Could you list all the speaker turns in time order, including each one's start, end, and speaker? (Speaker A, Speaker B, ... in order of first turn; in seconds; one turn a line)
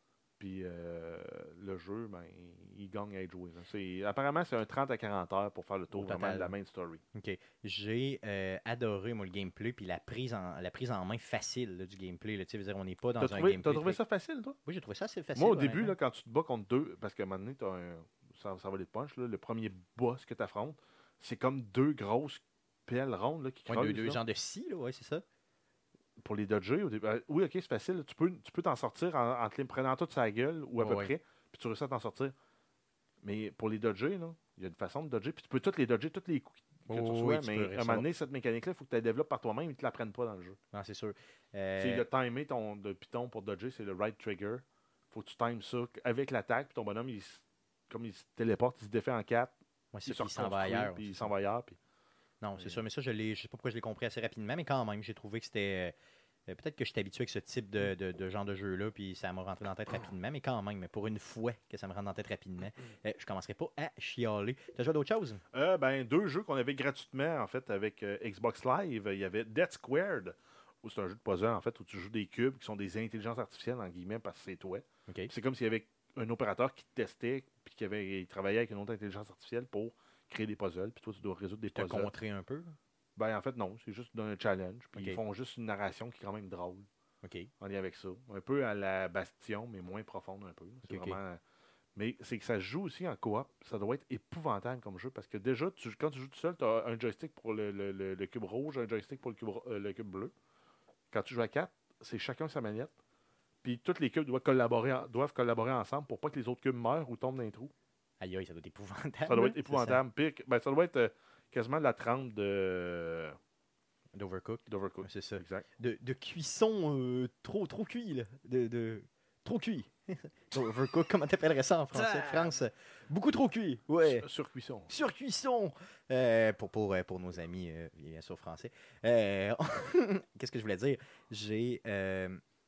Speaker A: 0.4-7.0
Speaker B: 5.9-6.5
Speaker B: 7.1-14.0
Speaker A: 13.2-14.6
Speaker B: 14.7-15.9
Speaker A: 15.3-24.2
Speaker B: 23.7-25.2
Speaker A: 26.2-32.3
Speaker B: 30.8-31.1
Speaker A: 33.2-40.6
Speaker B: 36.9-38.0
Speaker B: 40.7-42.0
Speaker A: 41.8-49.5
Speaker B: 49.9-51.3
Speaker A: 50.0-51.8
Speaker B: 52.4-55.9
Speaker B: 56.5-65.4
Speaker A: 65.5-82.1
Speaker B: 81.7-82.8
Speaker A: 83.2-86.9
Speaker B: 85.0-85.2
Speaker B: 87.2-87.5
Speaker A: 87.6-91.4
Speaker B: 90.8-91.2
Speaker A: 92.0-100.3
Speaker A: 101.1-102.9
Speaker A: 103.6-107.7
Speaker B: 108.2-110.0
Speaker A: 109.3-113.3
Speaker B: 114.1-124.2
Speaker A: 114.7-115.7
Speaker A: 122.0-122.5
Speaker A: 124.0-124.9
Speaker B: 124.9-132.4